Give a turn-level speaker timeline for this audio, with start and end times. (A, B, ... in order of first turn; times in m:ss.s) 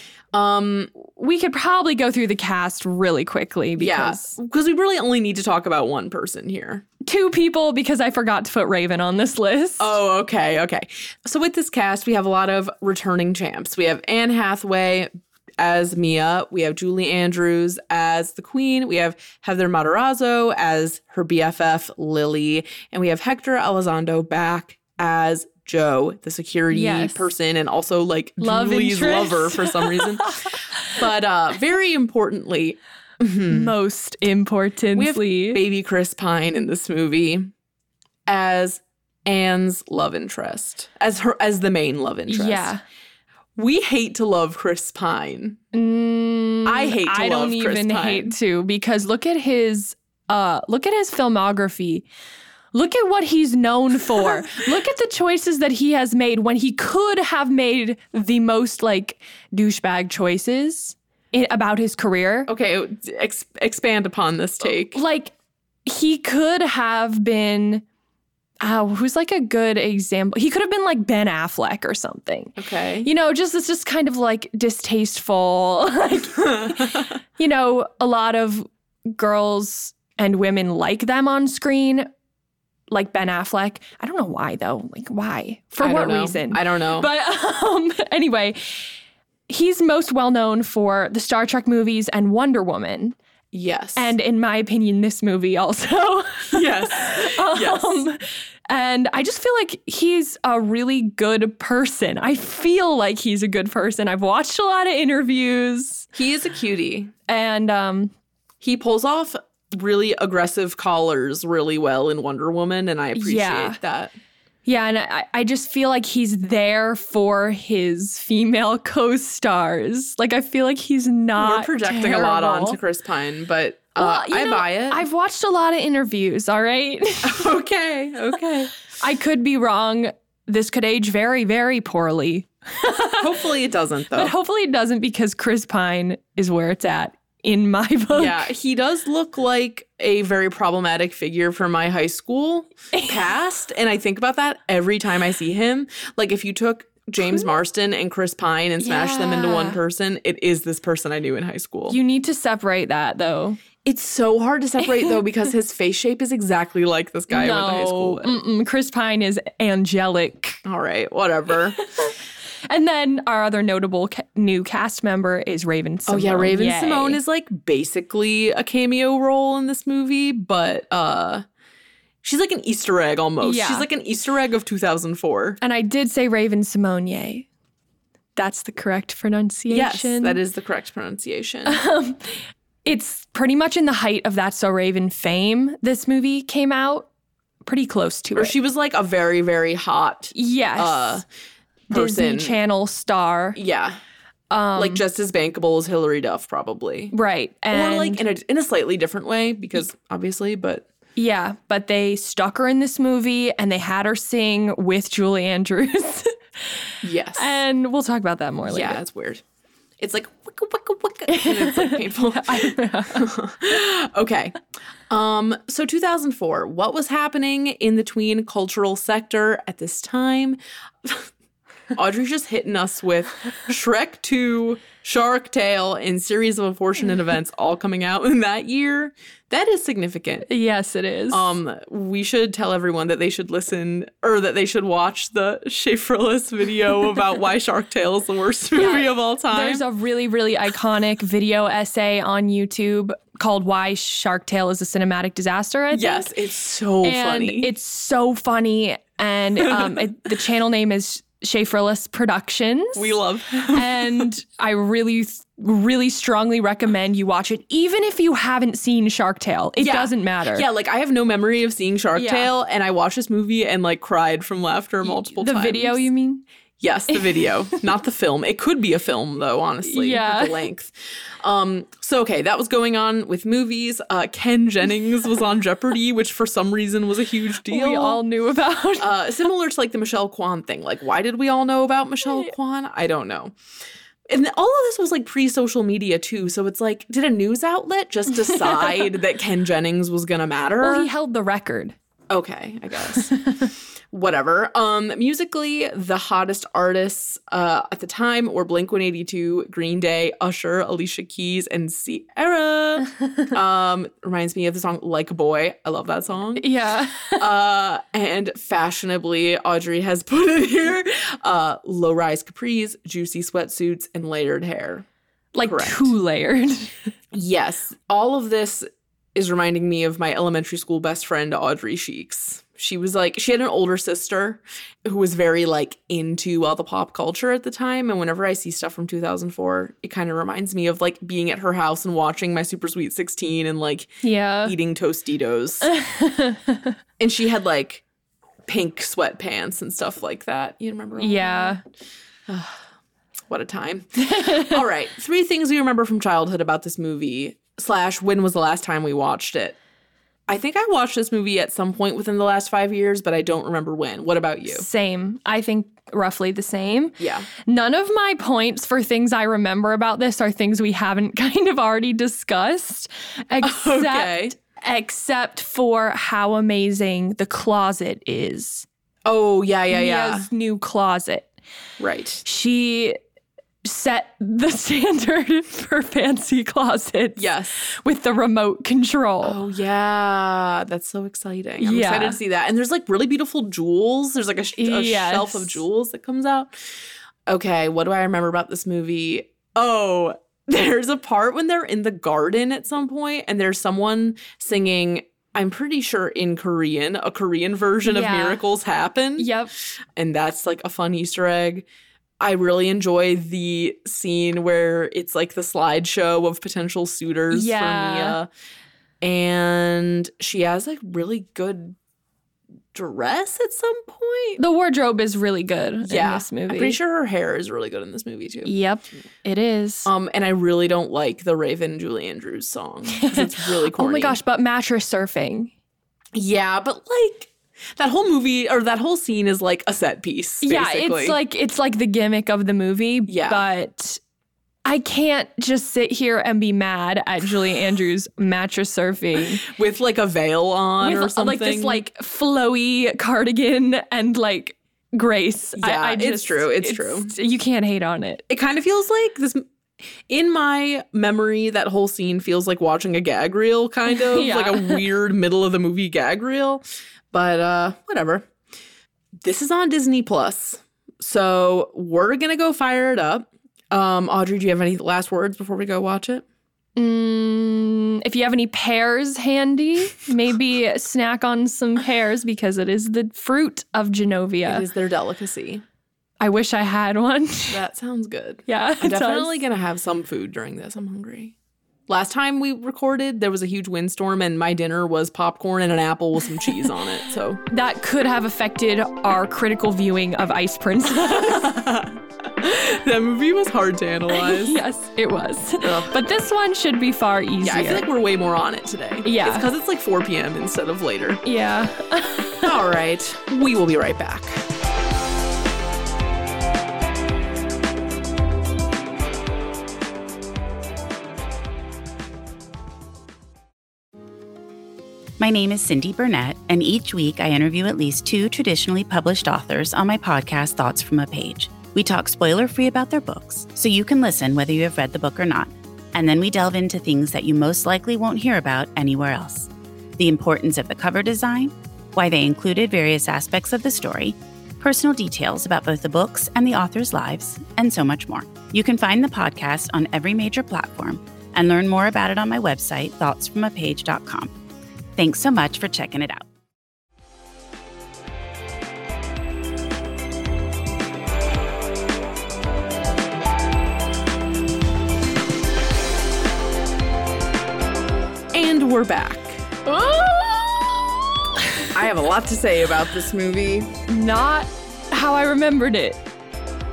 0:00.3-0:00.9 A
0:01.0-0:04.4 B
0:03.8-0:06.8 A
0:07.0-0:10.0 B
0:09.8-0:33.7 A
0:26.7-0:27.3 B
0:28.4-0:30.5 B
0:33.5-0:35.6 B
0:34.9-0:37.5 A
0:38.3-0:42.7 A
0:42.3-0:42.8 B
0:43.6-0:45.6 A
0:45.7-0:52.0 B
0:46.6-0:48.3 A
0:52.7-1:02.5 B
0:54.2-0:54.5 A
1:02.5-1:05.0 A
1:04.9-1:05.3 B
1:05.8-1:07.8 B
1:08.6-1:22.1 B
1:12.6-1:13.1 A
1:16.4-1:17.2 A
1:22.9-1:28.8 B
1:25.8-1:27.1 A
1:29.5-1:33.2 B
1:33.5-1:34.1 A
1:34.0-1:46.1 B
1:36.5-1:38.0 A
1:46.1-1:47.1 A
1:47.3-1:48.1 B
1:48.6-1:54.1 A
1:53.1-1:53.8 B
1:54.6-2:02.8 B
2:01.4-2:05.0 A
2:04.0-2:07.5 B
2:07.2-2:08.7 A
2:09.0-2:13.3 B
2:13.2-2:14.3 A
2:14.1-2:18.5 B
2:18.1-2:32.0 A
2:28.8-2:29.8 B
2:31.9-2:33.6 B
2:33.8-2:38.3 A
2:37.3-2:40.6 B
2:40.6-2:41.8 A
2:41.8-2:42.1 B
2:42.7-2:47.2 B
2:46.1-2:51.4 A
2:52.2-2:55.6 A
2:53.4-2:53.9 B
2:55.6-2:57.4 B
2:58.4-3:00.4 B
2:59.7-3:01.8 A
3:01.6-3:07.1 B
3:07.6-3:08.5 B
3:08.3-3:11.2 A
3:10.3-3:11.2 B
3:11.9-3:12.6 A
3:11.9-3:13.6 B
3:13.5-3:14.0 A
3:14.5-3:15.0 B
3:14.8-3:17.1 A
3:17.1-3:18.2 B
3:17.7-3:20.8 A
3:21.2-3:26.3 B
3:27.0-3:27.6 A
3:27.4-3:29.0 B
3:28.6-3:29.4 A
3:30.0-3:34.6 A
3:31.3-3:33.3 B
3:35.1-3:41.3 A
3:41.9-3:50.5 A
3:50.5-3:51.5 B
3:51.3-3:59.8 A
3:58.7-4:06.3 B
4:05.9-4:07.7 A
4:07.0-4:13.1 B
4:09.6-4:10.0 A
4:12.9-4:14.3 A
4:13.7-4:20.7 B
4:19.8-4:26.0 A
4:22.1-4:22.5 B
4:25.0-4:26.4 B
4:26.8-4:38.2 A
4:27.1-4:27.5 B
4:29.8-4:30.6 B
4:37.7-4:39.2 B
4:39.0-4:43.5 A
4:44.3-4:51.1 A
4:50.8-4:51.9 B
4:52.3-4:53.4 A
4:54.1-5:06.7 A
5:06.6-5:07.4 B
5:07.3-5:15.0 A
5:15.5-5:17.1 B
5:15.6-5:16.1 A
5:17.3-5:35.9 A
5:34.2-5:34.7 B
5:35.8-5:36.9 B
5:37.2-5:38.0 A
5:38.6-5:41.8 A
5:41.2-5:41.8 B
5:42.5-5:42.8 A
5:43.5-5:49.8 A
5:44.2-5:44.8 B
5:50.5-5:54.9 A
5:54.7-6:08.8 B
5:57.2-5:57.5 A
6:03.6-6:04.5 A
6:09.2-6:10.5 A
6:09.9-6:11.5 B
6:12.0-6:12.4 A
6:12.4-6:13.2 B
6:13.8-6:19.6 B
6:17.4-6:17.8 A
6:19.4-6:26.7 A
6:21.8-6:22.4 B
6:24.8-6:25.8 B
6:27.5-6:39.5 A
6:38.0-6:38.6 B
6:39.4-6:39.7 B
6:40.2-6:41.9 A
6:42.4-6:48.5 A
6:47.5-6:48.4 B
6:49.2-6:52.0 A
6:52.9-6:54.6 A
6:54.6-6:57.0 B
6:56.0-6:58.7 A
6:58.6-7:00.1 B
7:00.0-7:04.4 A
7:03.1-7:05.7 B
7:06.3-7:11.4 A
7:10.6-7:14.2 B
7:13.3-7:13.6 A
7:14.8-7:19.6 B
7:19.4-7:22.0 A
7:21.0-7:28.4 B
7:25.8-7:27.3 A
7:28.5-7:29.6 A
7:30.3-7:38.5 A
7:34.1-7:35.0 B
7:39.4-7:46.4 A
7:47.0-7:54.8 B
7:54.6-7:55.8 A
7:56.4-7:57.8 B
7:57.7-8:01.5 A
7:58.7-7:59.6 B
8:02.1-8:07.6 A
8:07.7-8:11.7 B
8:11.1-8:14.8 A
8:14.3-8:18.1 B
8:15.8-8:16.2 A
8:17.6-8:21.4 A
8:19.2-8:19.7 B
8:21.4-8:22.7 B
8:22.6-8:24.6 A
8:35.4-9:04.5 C
9:05.2-9:06.4 C
9:18.5-9:19.7 A
9:19.8-9:21.1 B
9:21.6-9:21.9 B
9:21.9-9:23.9 A
9:24.1-9:26.2 B